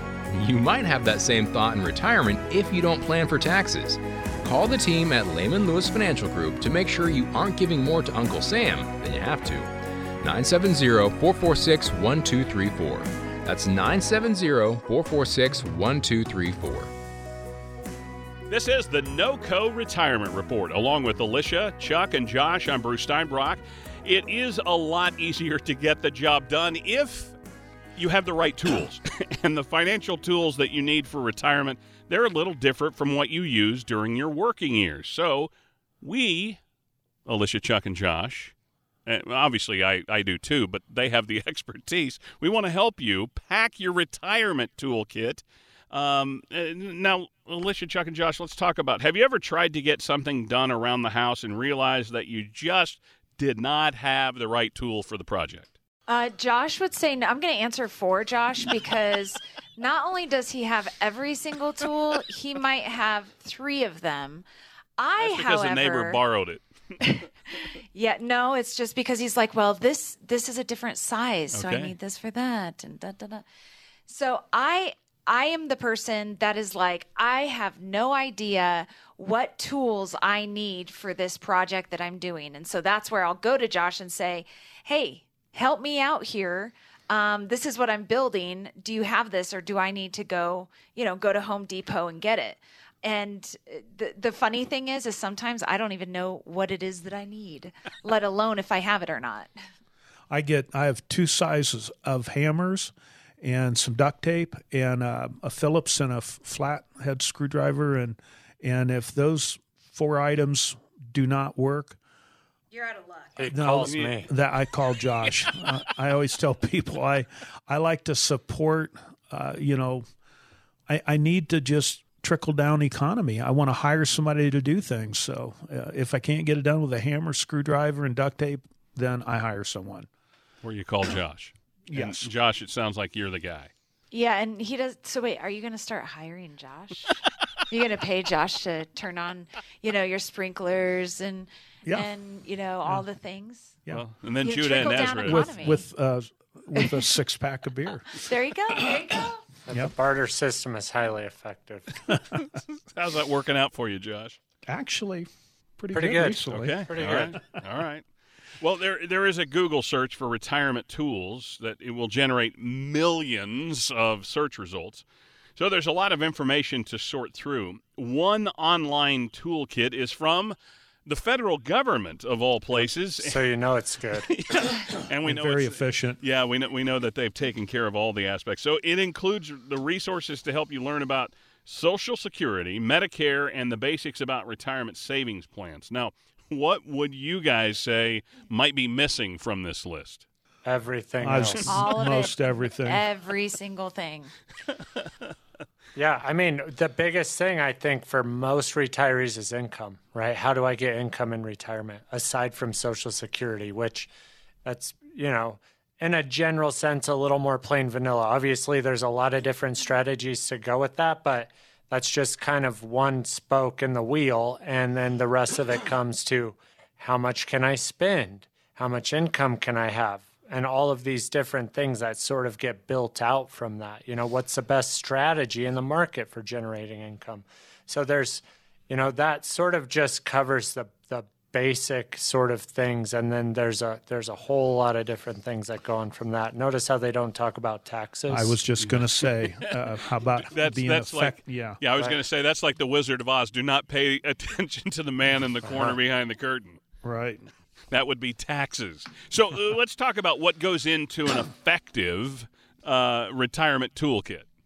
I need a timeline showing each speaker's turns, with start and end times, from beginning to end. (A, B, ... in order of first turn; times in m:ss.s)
0:00.3-0:09.7 A
0:10.2-0:16.9 A
0:18.5-0:27.4 B
0:28.0-0:35.5 B
0:36.0-0:36.6 B
0:37.2-0:38.5 B
0:39.0-0:55.8 B
0:56.1-1:04.4 C
1:05.0-1:06.2 C
1:05.2-1:06.6 B
1:07.9-1:13.4 C
1:11.5-1:11.9 B
1:14.1-1:39.5 C
1:40.3-1:52.0 D
1:52.7-1:53.3 C
1:53.4-1:54.3 E
1:53.5-2:00.0 D
1:53.8-1:54.2 B
2:00.9-2:10.1 D
2:10.6-2:13.7 B
2:11.9-2:12.3 D
2:14.1-2:17.2 C
2:17.7-2:23.7 C
2:23.9-2:25.4 B
2:24.4-2:25.8 C
2:24.8-2:28.2 D
2:28.1-2:29.4 C
2:29.7-2:32.0 E
2:32.4-2:34.4 B
2:34.6-2:37.6 D
2:35.9-2:37.4 E
2:36.5-2:38.0 B
2:38.6-2:45.0 B
2:45.6-2:50.5 B
2:51.0-2:53.4 B
2:52.7-2:54.3 E
2:54.2-3:10.2 B
2:55.2-2:56.2 D
3:10.6-3:11.7 E
3:11.2-3:13.0 D
3:11.7-3:14.3 C
3:16.0-3:24.1 E
3:24.6-3:58.6 E
3:58.3-4:01.8 D
3:58.8-4:06.8 B
4:05.6-4:06.0 E
4:07.0-4:07.5 D
4:07.9-4:14.5 B